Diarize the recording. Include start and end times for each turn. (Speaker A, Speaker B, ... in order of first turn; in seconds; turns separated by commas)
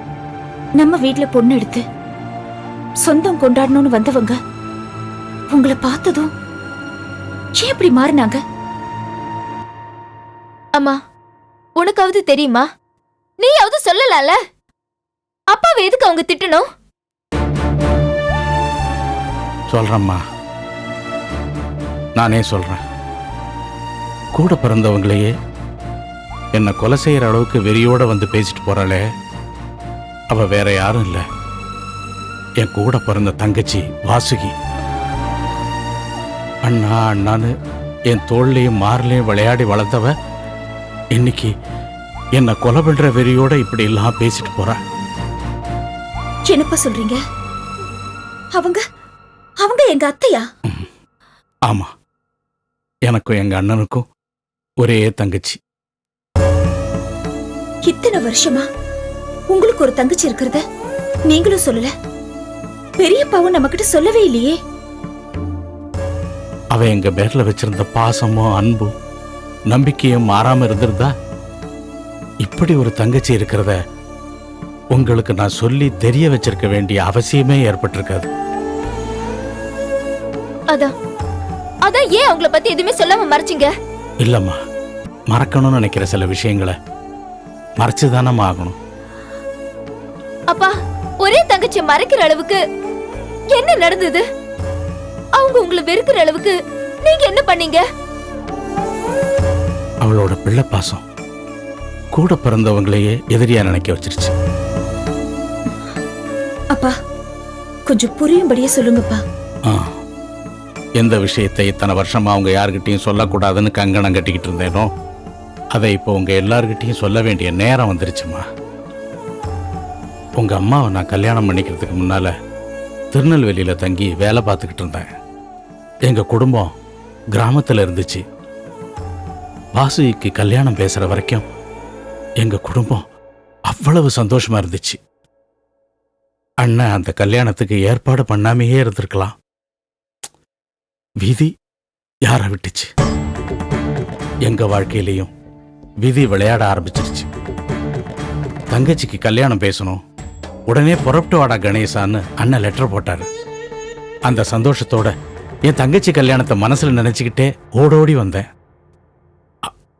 Speaker A: 0.8-1.8, Speaker A: 3.0-4.4, Speaker A: 5.5-6.3, Speaker A: 7.6-8.4, Speaker B: 11.8-12.6, Speaker B: 13.4-14.3, Speaker B: 15.5-16.6, Speaker C: 19.7-20.2, Speaker C: 22.2-22.8, Speaker C: 24.3-25.3, Speaker C: 26.5-29.0, Speaker C: 30.3-31.2, Speaker C: 32.6-34.5, Speaker C: 36.6-37.5, Speaker C: 38.1-40.1, Speaker C: 41.1-41.5, Speaker C: 42.4-44.8, Speaker A: 46.5-47.2, Speaker A: 48.5-48.8, Speaker A: 49.6-50.5, Speaker C: 53.1-54.0, Speaker C: 54.8-55.6, Speaker A: 57.8-58.6, Speaker A: 59.5-60.6, Speaker A: 61.3-61.9, Speaker A: 63.0-64.6, Speaker C: 66.7-68.9, Speaker C: 69.7-71.1, Speaker C: 72.4-73.8, Speaker C: 74.9-78.3, Speaker B: 81.8-83.7, Speaker C: 84.2-84.6, Speaker C: 85.3-86.7, Speaker C: 87.8-88.8, Speaker B: 91.2-92.6, Speaker B: 93.5-94.2, Speaker B: 95.4-97.8, Speaker C: 100.0-101.0, Speaker C: 102.1-104.3, Speaker A: 107.8-109.2, Speaker C: 111.0-114.9, Speaker C: 115.7-118.4, Speaker C: 120.4-122.3, Speaker C: 123.1-125.1, Speaker C: 126.1-126.7, Speaker C: 127.3-128.2, Speaker C: 129.8-131.4, Speaker C: 132.4-133.0, Speaker C: 133.7-135.0, Speaker C: 136.6-139.3, Speaker C: 141.2-141.5, Speaker C: 142.2-142.9, Speaker C: 144.4-145.3, Speaker C: 146.0-147.3, Speaker C: 148.7-150.0, Speaker C: 150.7-153.3, Speaker C: 154.3-155.1, Speaker C: 155.7-158.5